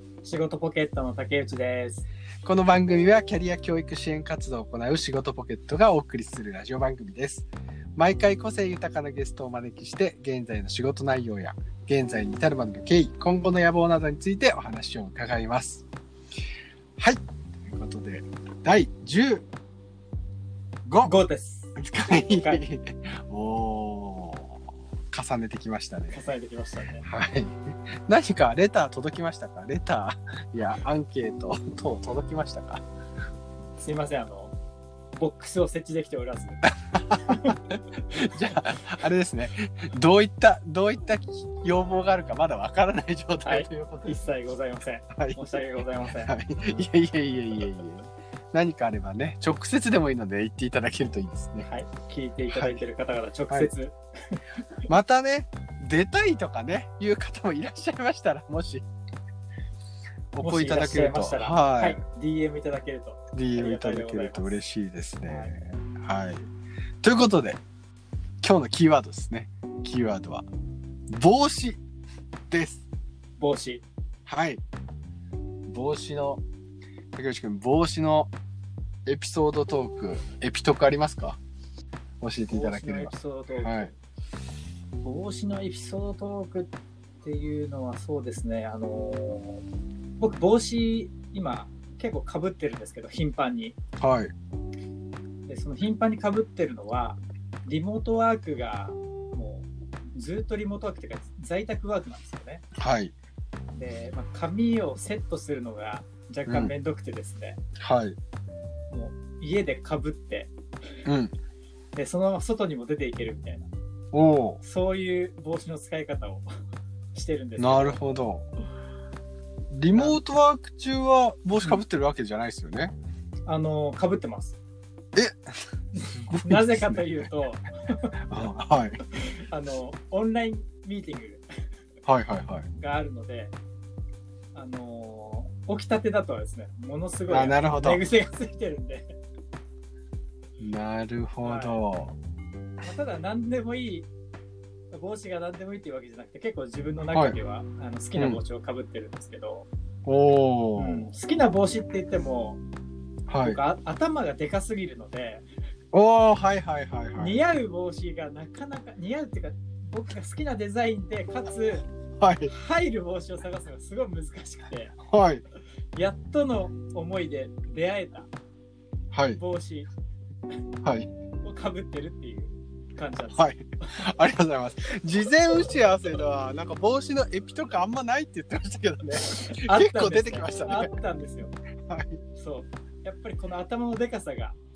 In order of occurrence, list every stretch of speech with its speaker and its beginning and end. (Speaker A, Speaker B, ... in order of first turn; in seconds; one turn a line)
Speaker A: 0.2-2.0
Speaker B: 2.4-15.8
Speaker B: 17.0-19.4
Speaker B: 20.9-21.1
Speaker A: 21.0-22.6
Speaker B: 21.8-26.2
Speaker A: 26.1-27.0
Speaker B: 27.0-32.9
Speaker A: 33.8-34.5
Speaker A: 35.1-36.7
Speaker B: 36.9-44.2
Speaker A: 37.2-37.6
Speaker A: 43.4-46.4
Speaker B: 45.1-45.4
Speaker B: 46.3-51.7
Speaker A: 51.6-54.4
Speaker B: 52.5-52.8
Speaker B: 54.9-58.9
Speaker B: 60.3-62.0
Speaker A: 60.4-64.6
Speaker B: 63.3-66.5
Speaker A: 65.3-65.8
Speaker B: 67.0-67.6
Speaker B: 68.4-70.5
Speaker B: 71.1-71.8
Speaker B: 72.5-72.8
Speaker A: 73.4-73.8
Speaker B: 74.3-74.6
Speaker B: 75.7-76.4
Speaker B: 77.1-78.3
Speaker B: 79.1-81.4
Speaker B: 82.2-83.9
Speaker A: 82.5-84.0
Speaker A: 85.0-89.7
Speaker A: 90.2-93.8
Speaker B: 94.0-94.3
Speaker A: 95.5-102.6
Speaker B: 102.8-103.1
Speaker A: 103.7-107.6
Speaker B: 106.5-106.7
Speaker B: 107.8-108.2
Speaker A: 108.9-110.5
Speaker B: 111.0-111.3
Speaker A: 112.0-113.7
Speaker B: 114.1-114.6
Speaker A: 114.6-116.5
Speaker A: 117.1-118.0
Speaker B: 117.6-118.5
Speaker B: 119.7-122.9
Speaker A: 119.9-120.2
Speaker A: 123.5-124.6
Speaker B: 125.2-125.5
Speaker A: 126.0-128.1
Speaker B: 126.1-127.3
Speaker B: 128.3-129.0
Speaker A: 129.1-131.4
Speaker B: 132.1-132.7
Speaker A: 132.8-133.6
Speaker A: 134.5-139.2
Speaker B: 137.3-138.0
Speaker B: 140.6-142.2
Speaker A: 141.4-141.8
Speaker A: 142.8-144.1
Speaker A: 144.9-149.7
Speaker B: 148.2-148.4
Speaker B: 150.1-151.1
Speaker A: 150.8-152.6
Speaker B: 153.3-153.6
Speaker A: 153.4-155.4
Speaker B: 155.9-157.4
Speaker A: 157.2-161.9
Speaker B: 162.2-162.5
Speaker A: 162.5-165.0
Speaker B: 165.0-165.4
Speaker A: 165.9-168.3
Speaker B: 169.1-169.4
Speaker A: 169.4-169.9
Speaker B: 170.8-171.1
Speaker A: 171.4-174.1
Speaker B: 173.3-180.9
Speaker A: 179.3-181.5
Speaker B: 181.9-182.2
Speaker A: 182.3-184.6